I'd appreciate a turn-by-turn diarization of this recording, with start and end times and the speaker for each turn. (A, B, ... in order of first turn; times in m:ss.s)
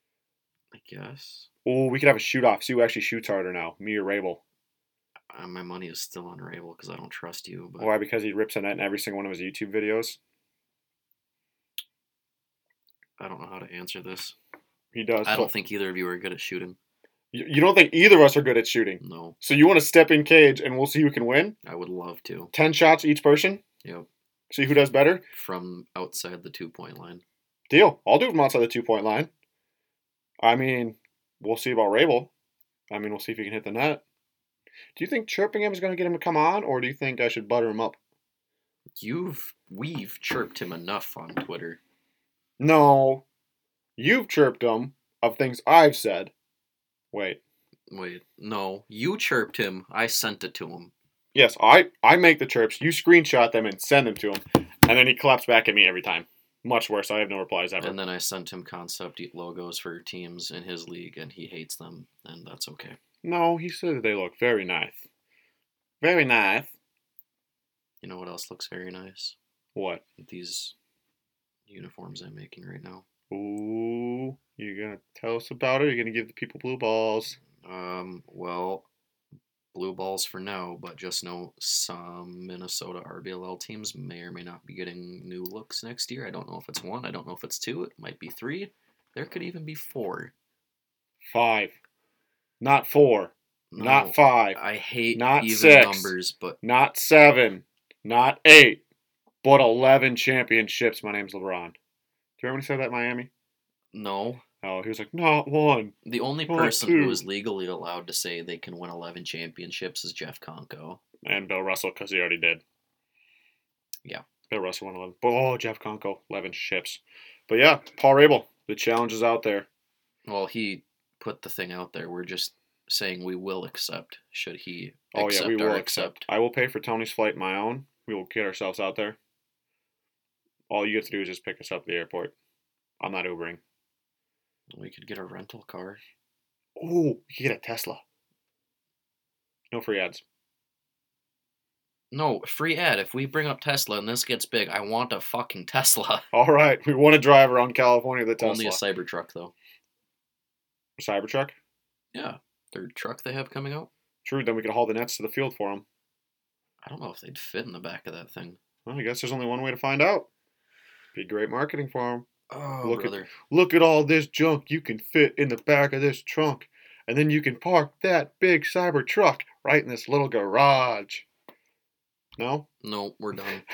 0:00.7-0:01.5 A
0:01.6-0:04.4 B
0:05.3-0:07.9 A
0:07.8-0:10.2 B
0:13.2-0:14.4 A
0:14.9-0:15.5 B
0:15.2-0:16.8 A
0:17.3-0:21.6 B
0:19.0-0:19.4 A
0:21.6-0:22.5 A
0:22.5-0:23.6 B
0:24.5-0:25.2 B
0:25.3-0:27.2 A
0:27.7-0:29.3 B
0:30.4-0:32.3 B
0:32.9-0:34.0 B
0:35.0-0:38.0 B
0:39.0-0:41.8 A
0:42.6-0:43.2 B
0:44.0-0:46.3 B
0:47.1-0:47.4 B
0:47.9-0:50.9 A
0:51.3-0:58.0 B
0:57.8-1:03.0 A
1:03.2-1:05.0 B
1:06.0-1:06.7 B
1:08.0-1:09.4 A
1:09.8-1:10.0 B
1:10.2-1:10.8 A
1:11.7-1:13.0 A
1:13.3-1:17.4 B
1:17.6-1:18.9 A
1:19.7-1:30.3 A
1:31.3-1:31.8 B
1:32.6-1:34.6 B
1:33.7-1:36.6 A
1:35.1-1:38.8 B
1:39.4-1:41.8 B
1:42.4-1:43.3 B
1:43.9-1:44.4 A
1:44.6-1:46.0 B
1:46.0-1:51.0 A
1:46.5-1:47.2 B
1:51.2-1:52.6 B
1:54.5-1:59.7 B
2:00.2-2:06.3 A
2:05.1-2:09.2 B
2:10.7-2:12.3 B
2:13.0-2:13.6 B
2:14.7-2:16.0 A
2:16.8-2:18.0 B
2:19.7-2:20.2 B
2:22.1-2:26.3 A
2:26.3-2:28.8 B
2:28.4-2:29.5 A
2:31.0-2:31.6 B
2:32.1-2:33.9 A
2:34.2-2:35.8 B
2:36.8-2:38.6 A
2:38.9-2:40.3 B
2:41.2-2:42.3 B
2:42.5-2:43.3 A
2:42.8-2:51.3 B
2:52.4-2:52.7 B
2:52.8-2:53.6 A